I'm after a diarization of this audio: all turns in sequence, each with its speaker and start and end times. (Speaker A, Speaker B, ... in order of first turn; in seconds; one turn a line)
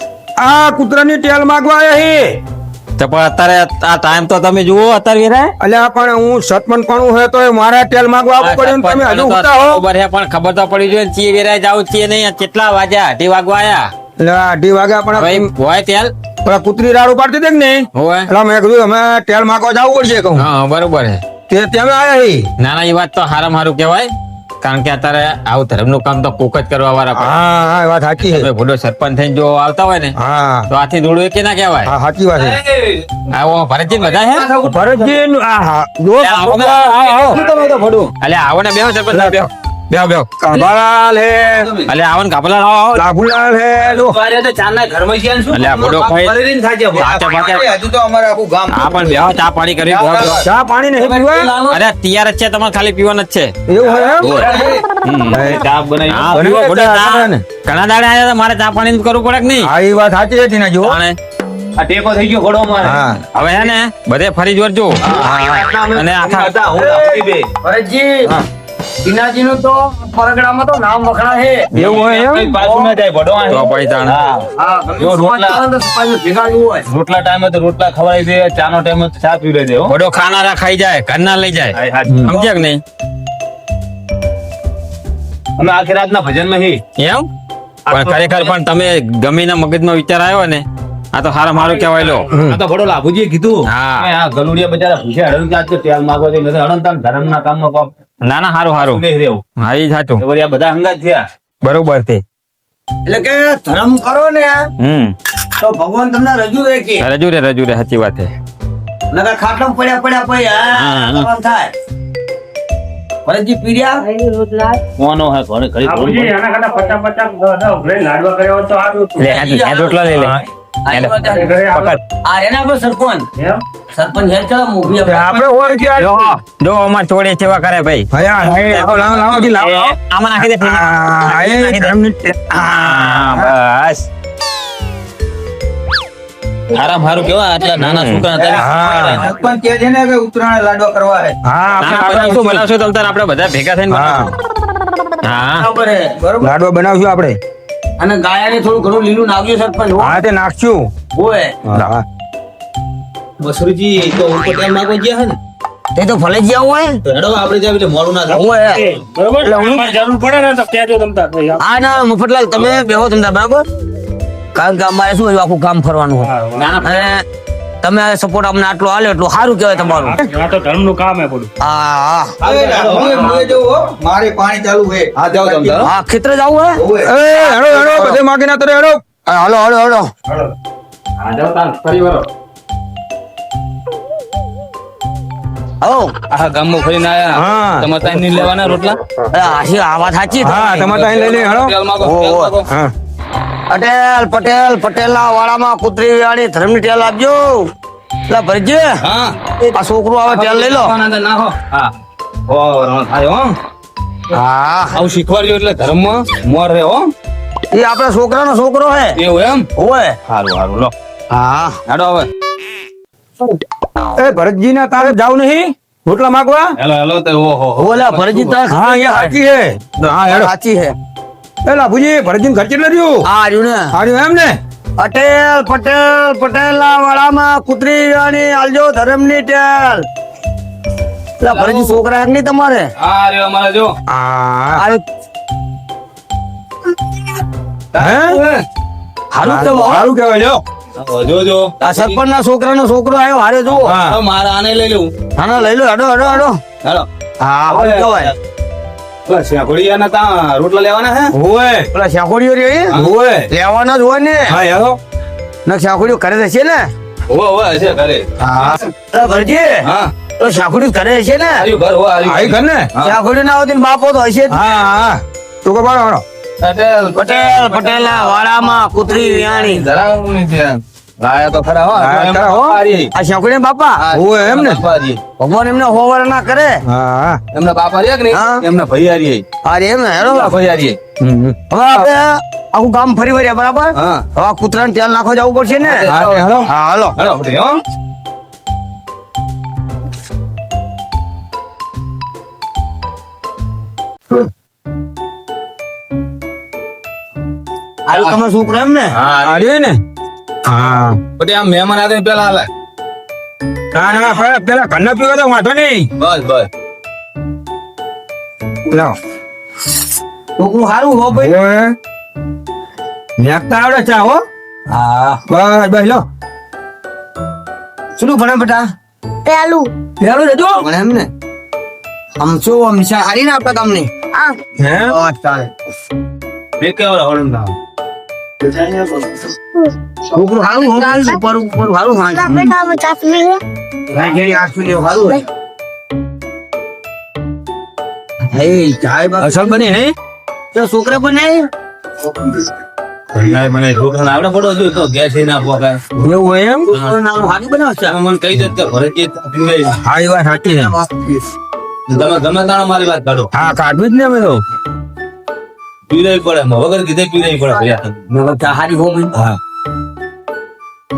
Speaker A: 0.4-2.4
Speaker B: 3.0-5.5
Speaker A: 5.6-9.8
Speaker B: 8.4-13.9
Speaker A: 14.2-15.5
Speaker B: 15.2-16.1
Speaker A: 16.4-20.5
Speaker B: 17.9-18.3
Speaker B: 20.4-21.2
Speaker A: 21.5-22.5
Speaker B: 22.6-27.4
Speaker A: 27.1-28.5
Speaker B: 28.2-30.2
Speaker A: 30.2-30.7
Speaker B: 30.7-31.9
Speaker A: 31.9-32.6
Speaker C: 32.4-33.3
Speaker B: 33.3-34.5
Speaker C: 33.9-35.2
Speaker A: 34.6-37.4
Speaker B: 36.2-37.4
Speaker C: 37.0-38.1
Speaker B: 38.2-40.4
Speaker A: 39.1-39.4
Speaker A: 40.4-41.7
Speaker C: 41.6-41.9
Speaker B: 41.9-43.0
Speaker A: 43.0-44.2
Speaker C: 43.8-49.2
Speaker B: 45.5-46.4
Speaker B: 46.9-47.7
Speaker B: 48.7-50.4
Speaker C: 49.9-50.5
Speaker A: 50.4-51.5
Speaker C: 51.0-51.8
Speaker B: 51.7-53.5
Speaker A: 53.7-54.4
Speaker C: 53.8-56.6
Speaker B: 54.4-59.7
Speaker A: 55.3-55.6
Speaker A: 56.3-57.4
Speaker A: 59.6-61.0
Speaker B: 60.8-61.2
Speaker C: 61.8-63.0
Speaker A: 62.8-63.2
Speaker B: 63.3-66.5
Speaker C: 65.0-65.5
Speaker D: 65.2-66.0
Speaker C: 66.2-67.5
Speaker D: 66.8-68.3
Speaker D: 69.0-71.7
Speaker A: 71.7-72.5
Speaker C: 71.7-75.6
Speaker D: 72.6-72.9
Speaker B: 73.5-74.2
Speaker D: 74.6-76.9
Speaker C: 76.9-79.9
Speaker B: 79.9-82.8
Speaker C: 81.7-82.4
Speaker C: 85.6-86.8
Speaker B: 87.0-87.3
Speaker C: 87.9-88.5
Speaker B: 87.9-92.3
Speaker A: 92.3-92.6
Speaker C: 92.3-97.9
Speaker B: 93.7-94.1
Speaker B: 98.2-99.0
Speaker C: 98.8-99.4
Speaker B: 99.6-100.2
Speaker C: 100.2-101.2
Speaker B: 101.6-102.2
Speaker D: 103.1-104.7
Speaker B: 104.8-105.1
Speaker D: 105.6-107.1
Speaker B: 107.0-108.3
Speaker D: 109.1-111.7
Speaker B: 110.8-111.3
Speaker D: 113.3-114.8
Speaker C: 115.0-116.3
Speaker E: 115.8-119.2
Speaker B: 119.2-120.4
Speaker D: 119.2-120.3
Speaker D: 120.8-121.5
Speaker B: 120.9-122.0
Speaker E: 121.3-122.0
Speaker D: 122.2-123.3
Speaker E: 123.4-123.6
Speaker D: 123.9-125.5
Speaker A: 125.0-126.2
Speaker B: 126.0-131.9
Speaker A: 128.1-129.9
Speaker A: 130.5-133.5
Speaker B: 132.7-134.1
Speaker C: 136.7-141.3
Speaker B: 137.8-138.3
Speaker A: 138.6-139.3
Speaker A: 141.4-142.7
Speaker B: 141.8-144.3
Speaker A: 143.9-144.3
Speaker B: 145.2-145.7
Speaker D: 145.6-146.2
Speaker A: 146.2-147.4
Speaker D: 148.0-150.2
Speaker A: 150.0-150.9
Speaker D: 151.1-151.5
Speaker A: 151.7-152.1
Speaker C: 153.4-155.4
Speaker D: 155.9-157.0
Speaker C: 157.1-158.5
Speaker E: 158.3-161.6
Speaker D: 158.3-158.8
Speaker A: 159.5-159.7
Speaker D: 161.6-163.7
Speaker D: 164.5-167.2
Speaker E: 166.2-166.8
Speaker B: 166.6-167.1
Speaker D: 167.8-170.2
Speaker E: 169.9-171.5
Speaker D: 171.6-172.4
Speaker C: 172.4-173.6
Speaker A: 172.4-175.8
Speaker C: 175.1-175.9
Speaker D: 175.8-176.8
Speaker C: 176.8-178.0
Speaker A: 177.0-179.0
Speaker D: 179.3-180.1
Speaker B: 181.2-182.3
Speaker D: 185.8-186.1
Speaker C: 186.3-189.0
Speaker A: 187.3-187.9
Speaker D: 189.3-190.7
Speaker A: 190.4-191.8
Speaker C: 190.5-192.7
Speaker D: 192.0-192.6
Speaker A: 192.7-192.9
Speaker D: 193.7-197.7
Speaker D: 198.3-199.0
Speaker C: 199.0-199.6
Speaker D: 199.7-200.9
Speaker C: 200.3-201.9
Speaker C: 202.5-203.6
Speaker D: 204.3-205.0
Speaker C: 204.9-207.1
Speaker D: 207.7-209.2
Speaker C: 209.2-209.7
Speaker D: 209.8-210.2
Speaker C: 210.3-210.9
Speaker D: 211.3-211.8
Speaker C: 211.9-212.3
Speaker A: 214.2-216.8
Speaker C: 216.8-218.6
Speaker D: 217.8-219.4
Speaker A: 218.7-220.5
Speaker D: 220.3-220.9
Speaker A: 221.6-223.2
Speaker D: 223.2-224.0
Speaker A: 223.9-224.6
Speaker D: 225.0-230.1
Speaker D: 231.4-232.9
Speaker C: 231.5-232.0
Speaker C: 233.0-233.9
Speaker A: 234.1-234.8
Speaker D: 234.8-235.0
Speaker C: 237.9-238.7
Speaker A: 238.0-238.4
Speaker D: 239.3-240.1
Speaker A: 239.4-240.6
Speaker C: 241.0-242.2
Speaker D: 241.8-244.0
Speaker C: 243.8-245.1
Speaker A: 243.9-244.2
Speaker D: 245.4-246.6
Speaker D: 247.4-248.3
Speaker C: 247.7-248.3
Speaker C: 249.3-251.3
Speaker A: 251.3-251.9
Speaker D: 251.9-252.9
Speaker A: 252.9-253.5
Speaker D: 253.5-254.6
Speaker A: 254.5-255.0
Speaker D: 255.7-256.9
Speaker C: 257.3-258.7
Speaker D: 258.5-261.7
Speaker C: 259.8-260.1
Speaker C: 261.6-263.1
Speaker A: 262.2-262.9
Speaker D: 263.0-264.6
Speaker A: 264.5-266.2
Speaker C: 266.6-273.1
Speaker D: 267.1-269.9
Speaker A: 271.9-272.8
Speaker D: 273.1-274.0
Speaker C: 274.0-275.2
Speaker A: 274.1-274.8
Speaker D: 275.4-276.8
Speaker A: 276.9-277.4
Speaker C: 277.5-279.4
Speaker D: 278.3-278.6
Speaker D: 279.6-280.6
Speaker C: 280.2-281.0
Speaker A: 281.2-282.1
Speaker D: 281.7-286.1
Speaker C: 283.9-284.2
Speaker C: 285.8-287.8
Speaker A: 286.1-286.7
Speaker D: 286.7-287.2
Speaker D: 298.1-299.1
Speaker C: 299.1-299.7
Speaker A: 299.4-300.0
Speaker A: 300.6-301.2
Speaker C: 301.4-302.7
Speaker A: 303.9-306.1
Speaker C: 306.2-306.7
Speaker A: 308.9-309.1
Speaker D: 310.6-311.5
Speaker A: 311.3-311.9
Speaker A: 313.4-314.4
Speaker D: 314.9-315.4
Speaker A: 315.5-316.2
Speaker D: 318.2-318.9
Speaker F: 319.4-319.9
Speaker A: 320.2-320.9
Speaker D: 320.7-321.3
Speaker D: 322.4-324.2
Speaker A: 324.8-325.1
Speaker D: 325.1-325.7
Speaker C: 326.8-327.8
Speaker D: 328.6-329.5
Speaker D: 330.3-332.6
Speaker F: 330.6-331.4
Speaker F: 332.4-333.6
Speaker D: 334.1-335.4
Speaker D: 338.5-339.9
Speaker A: 339.4-340.1
Speaker D: 340.7-341.7
Speaker C: 343.3-346.0
Speaker A: 346.2-346.9
Speaker D: 346.9-348.2
Speaker C: 348.1-350.0
Speaker A: 350.0-350.9
Speaker C: 352.1-353.5
Speaker A: 353.5-354.6
Speaker C: 356.1-358.1
Speaker D: 358.3-359.4